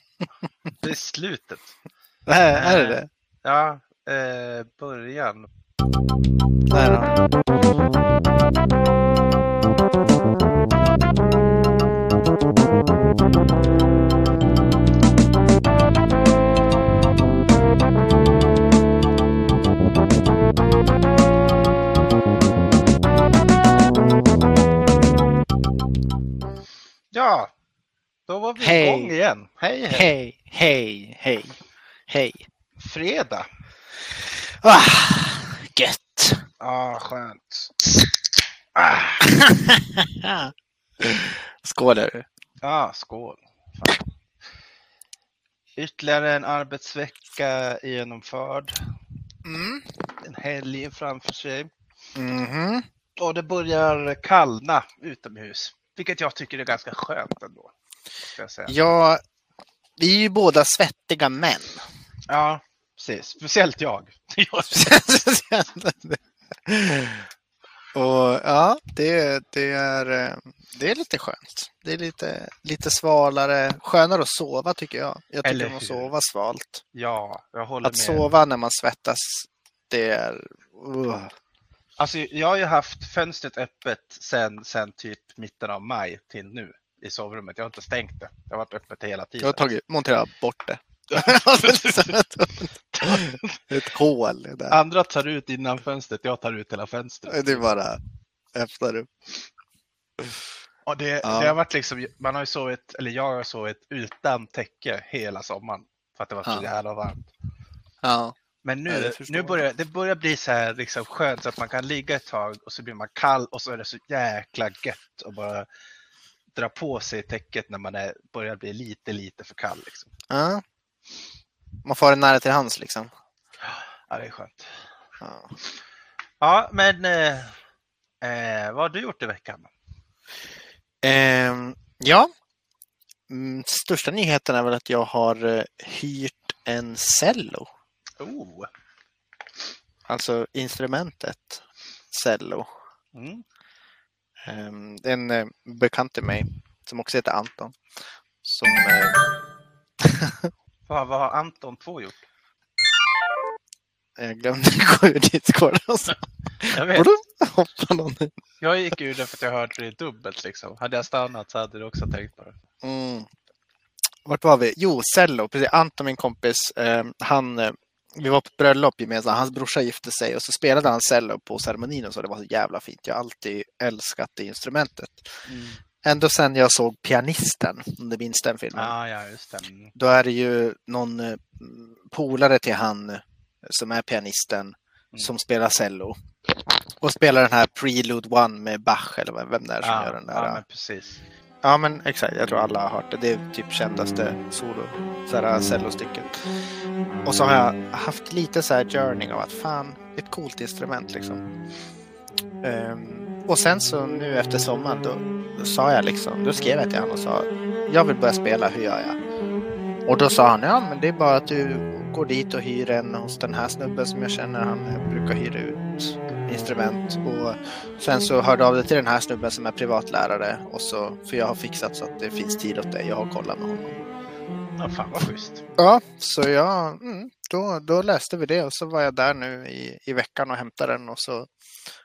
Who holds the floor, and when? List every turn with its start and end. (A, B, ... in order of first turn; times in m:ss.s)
0:00.8-0:01.7 A
0:02.2-0:03.1 B
0:02.5-0:05.5 A
0:06.7-0:07.2 B
0:27.1-0:27.5 A
0:28.3-0:30.1 A
0:28.6-0:29.1 B
0:29.9-0:31.6 B
0:32.1-0:32.4 B
0:32.8-0:33.5 A
0:34.5-0:36.4 B
0:36.6-0:37.8 A
0:38.8-0:39.2 A
0:39.3-0:42.3 B
0:42.6-0:44.0 A
0:45.8-0:48.9 A
0:49.4-0:49.9 B
0:50.2-0:51.7 A
0:52.2-0:52.9 B
0:53.2-0:57.7 A
0:58.3-0:58.8 A
0:58.7-0:59.2 B
1:00.0-1:01.8 B
1:02.3-1:05.0 A
1:04.7-1:07.3 B
1:07.9-1:16.8 B
1:15.4-1:16.1 A
1:16.9-1:18.3 A
1:17.8-1:21.3 B
1:22.0-1:29.7 A
1:29.4-1:34.8 B
1:31.1-1:32.2 A
1:32.9-1:33.6 A
1:34.7-1:37.6 A
1:37.3-1:38.0 B
1:38.5-1:39.1 B
1:40.9-1:47.3 A
1:41.2-1:41.6 B
1:48.0-1:48.3 B
1:48.6-1:55.7 A
1:48.9-1:49.7 B
1:56.6-2:00.1 A
2:00.3-2:00.6 B
2:01.8-2:03.1 B
2:03.6-2:04.7 A
2:05.2-2:05.5 B
2:06.4-2:07.6 A
2:08.2-2:09.7 A
2:11.0-2:12.3 B
2:13.3-2:17.7 B
2:18.2-2:18.7 A
2:20.1-2:22.7 B
2:23.1-2:23.4 A
2:24.4-2:27.8 B
2:28.4-2:29.2 B
2:30.0-2:30.5 B
2:30.9-2:32.2 A
2:34.2-2:38.3 B
2:36.7-2:37.1 A
2:38.6-2:42.6 A
2:42.8-2:43.3 B
2:44.2-2:55.3 B
2:55.4-2:55.8 A
2:56.0-2:58.9 B
2:58.7-2:59.9 A
2:59.9-3:06.2 B
3:07.0-3:10.6 B
3:09.8-3:11.2 A
3:11.6-3:16.4 B
3:17.2-3:21.4 B
3:22.6-3:29.2 B
3:30.1-3:44.0 B
3:44.8-3:45.6 A
3:45.8-3:51.5 B